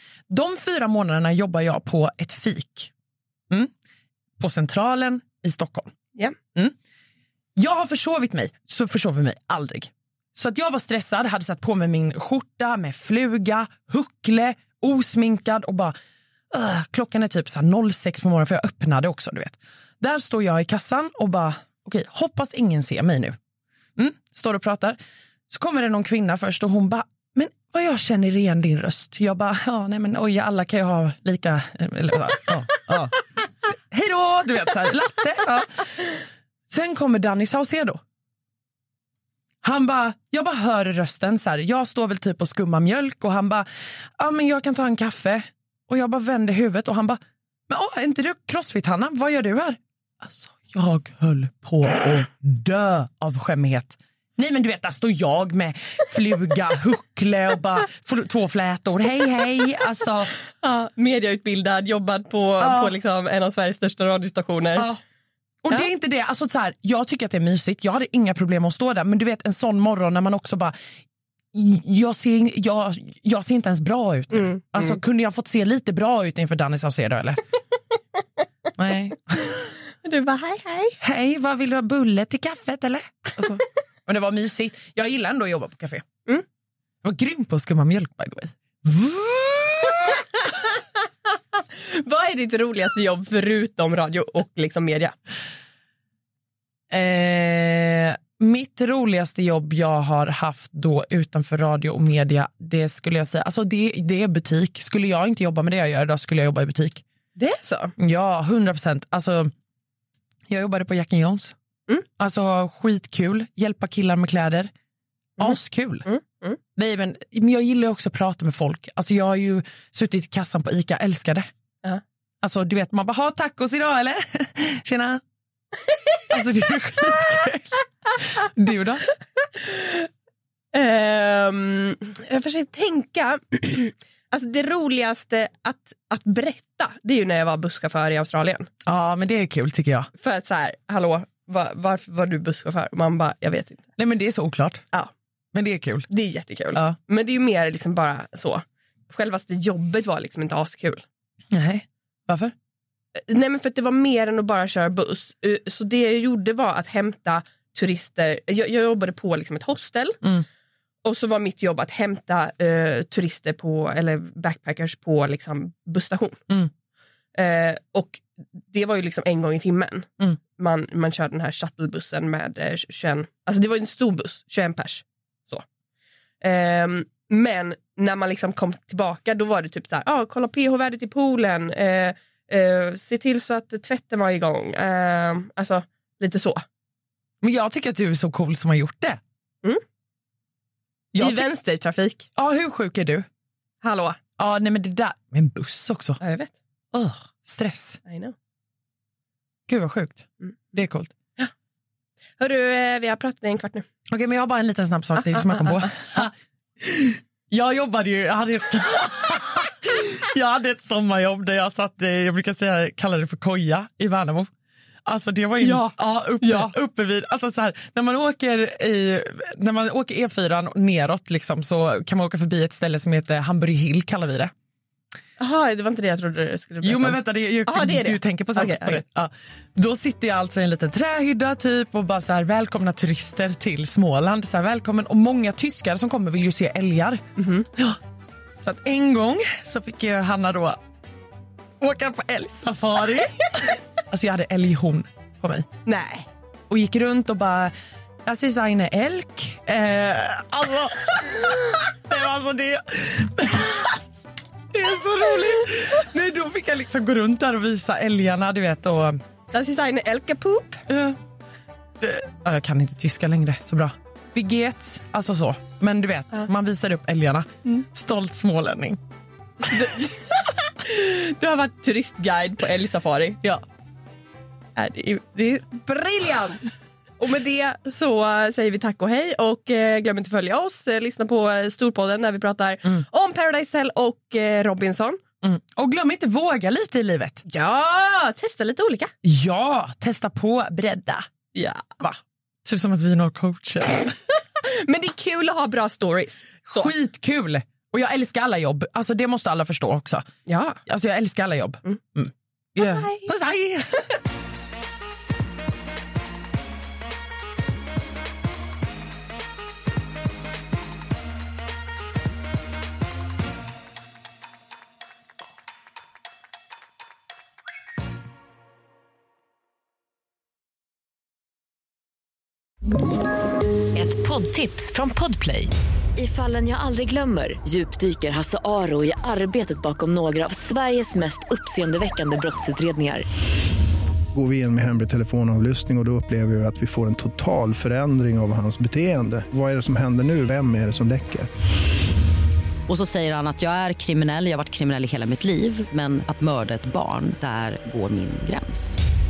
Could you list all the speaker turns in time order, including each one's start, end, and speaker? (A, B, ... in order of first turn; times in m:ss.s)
0:00.3-0:02.9 A
0:04.4-0:05.9 A
0:07.6-0:15.9 A
0:16.5-0:23.4 A
0:24.0-0:25.0 A
0:25.5-0:36.2 A
0:36.7-0:38.0 A
0:39.6-0:43.6 A
0:44.2-1:00.3 A
1:00.6-1:04.9 B
1:02.6-1:02.9 A
1:05.6-1:10.7 A
1:11.5-1:17.4 A
1:14.3-1:15.0 B
1:18.7-1:19.6 A
1:20.0-1:21.0 B
1:21.0-1:26.0 A
1:27.0-1:30.2 A
1:30.1-1:30.8 B
1:31.5-1:35.1 B
1:36.9-1:47.0 A
1:47.4-1:47.9 B
1:48.0-1:49.5 A
1:50.5-1:51.6 A
1:52.2-1:54.7 A
1:55.4-1:56.0 A
1:55.4-1:56.6 B
1:56.7-2:01.5 A
2:02.4-2:05.2 A
2:06.3-2:07.8 A
2:08.3-2:09.0 A
2:09.5-2:10.1 B
2:10.7-2:18.7 B
2:18.8-2:20.1 A
2:20.2-2:23.9 B
2:24.0-2:24.8 A
2:25.5-2:26.1 A
2:26.1-2:31.0 B
2:31.5-2:32.5 A
2:33.3-2:40.2 B
2:41.0-2:46.4 B
2:47.3-2:55.6 B
2:56.4-3:06.6 B
3:07.4-3:09.2 A
3:11.1-3:11.5 A
3:11.2-3:12.3 B
3:12.4-3:13.2 A
3:13.8-3:14.2 B
3:14.4-3:16.2 A
3:16.2-3:16.5 B
3:16.9-3:18.0 A
3:18.0-3:18.3 B
3:19.7-3:21.1 A
3:22.4-3:23.8 B
3:24.1-3:34.5 A
3:35.0-3:44.5 A
3:35.6-3:36.7 B
3:45.4-3:49.0 B
3:46.8-3:57.2 A
3:57.4-3:57.7 B
3:58.6-4:00.8 A
4:01.8-4:05.7 A
4:05.8-4:06.3 B
4:06.7-4:07.7 A
4:08.2-4:14.1 A
4:14.7-4:19.2 A
4:19.5-4:20.8 B
4:20.9-4:21.2 A
4:22.0-4:29.0 A
4:29.6-4:33.4 B
4:34.8-4:45.2 B
4:45.4-4:47.4 A
4:47.4-4:49.1 B
4:49.2-4:51.2 A
4:51.5-4:52.0 B
4:52.0-4:54.1 A
4:54.6-4:56.9 B
4:56.6-5:00.2 A
5:00.4-5:00.8 B
5:00.8-5:04.1 A
5:02.8-5:03.3 B
5:23.9-5:33.2 C
5:34.3-5:41.5 D
5:42.9-5:48.9 E